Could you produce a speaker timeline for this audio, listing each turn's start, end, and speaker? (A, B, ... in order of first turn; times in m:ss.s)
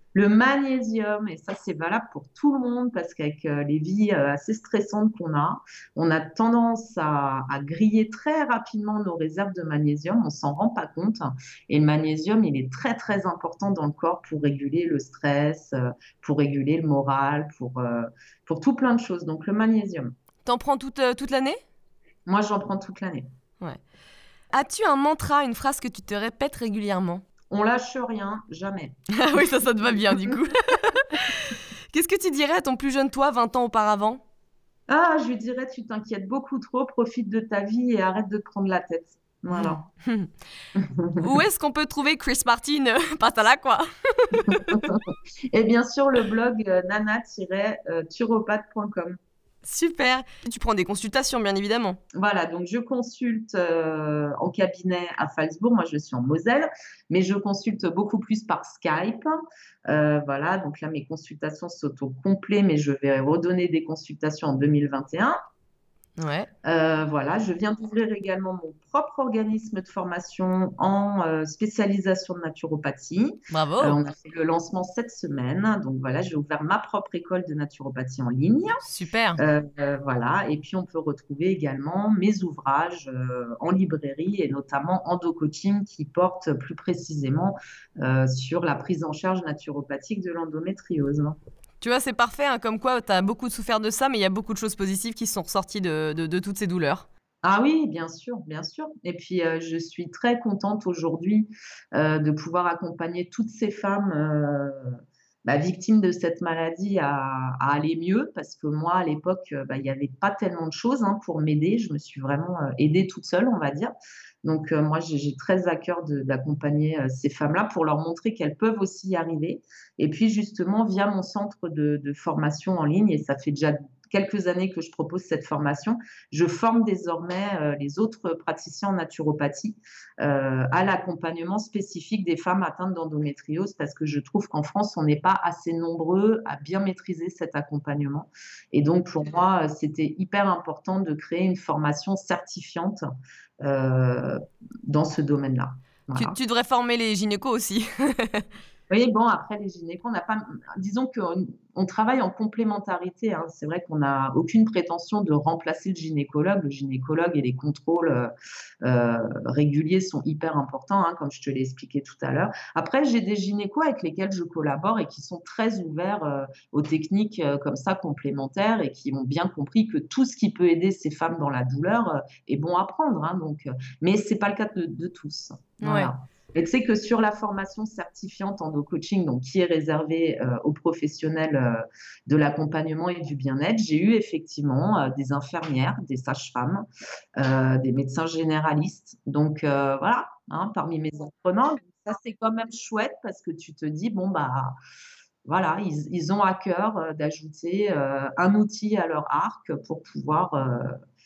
0:00.1-0:20.1 A
0:20.4-0:21.6 B
0:22.3-0:23.3 A
0:24.5-0:27.2 B
0:27.5-0:29.0 A
0:29.1-0:34.2 B
0:34.9-0:39.8 A
0:39.6-0:40.3 B
0:40.7-0:41.2 A
0:41.2-0:45.0 B
0:44.5-0:49.2 A
0:49.6-0:52.0 B
0:52.1-0:59.3 A
0:59.9-1:05.4 A
1:06.2-1:06.5 B
1:06.6-1:18.8 A
1:13.5-1:14.0 B
1:18.8-1:19.4 B
1:19.4-1:31.4 A
1:31.8-1:37.1 B
1:37.4-2:23.0 A
2:23.6-2:26.4 A
2:26.1-2:28.5 B
2:28.9-2:38.3 A
2:38.8-3:14.8 A
2:55.8-2:56.1 B
3:15.4-3:21.0 A